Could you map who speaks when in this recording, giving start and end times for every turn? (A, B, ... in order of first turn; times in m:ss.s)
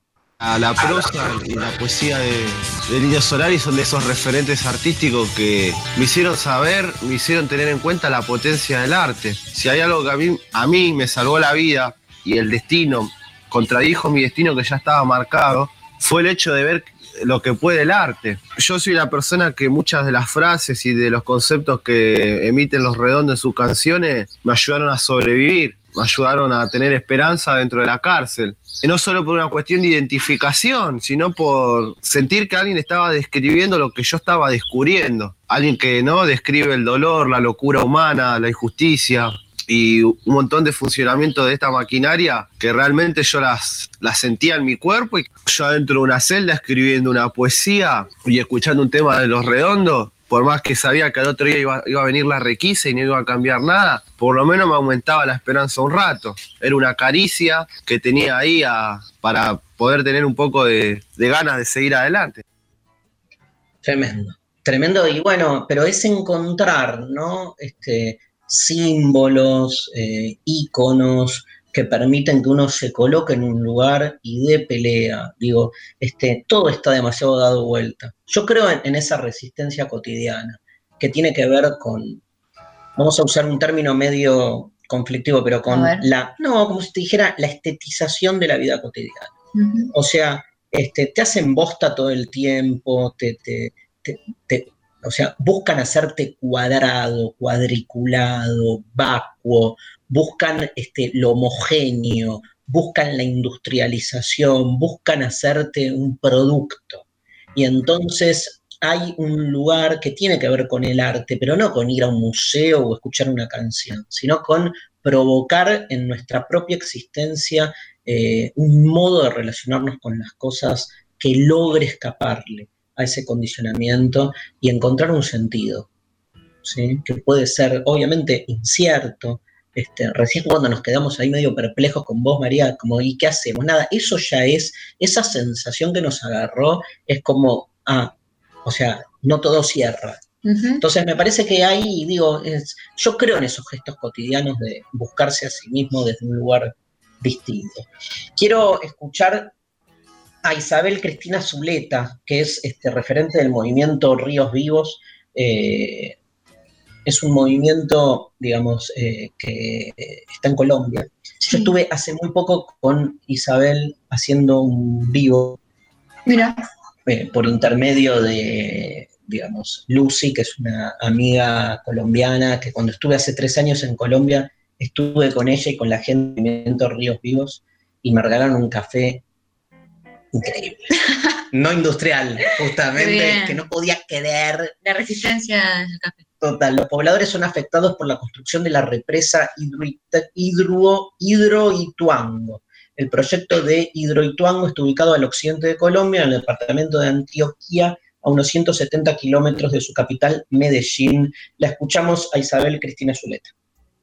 0:00.4-1:02.4 A
1:03.8-1:22.2 B
1:23.0-1:29.3 B
1:25.7-1:26.1 C
1:29.6-1:29.9 C
1:29.9-1:47.0 B
1:47.6-2:05.9 B
2:06.6-2:18.1 B
2:18.6-2:20.2 B
2:20.5-2:20.8 C
2:20.8-2:29.5 B
2:30.4-2:36.2 B
2:37.0-2:45.6 B
2:46.3-2:46.6 C
2:47.1-2:59.2 B
3:00.3-3:00.9 B
3:01.5-3:04.7 B
3:03.0-3:03.6 C
3:04.8-3:06.2 C
3:06.4-3:23.5 B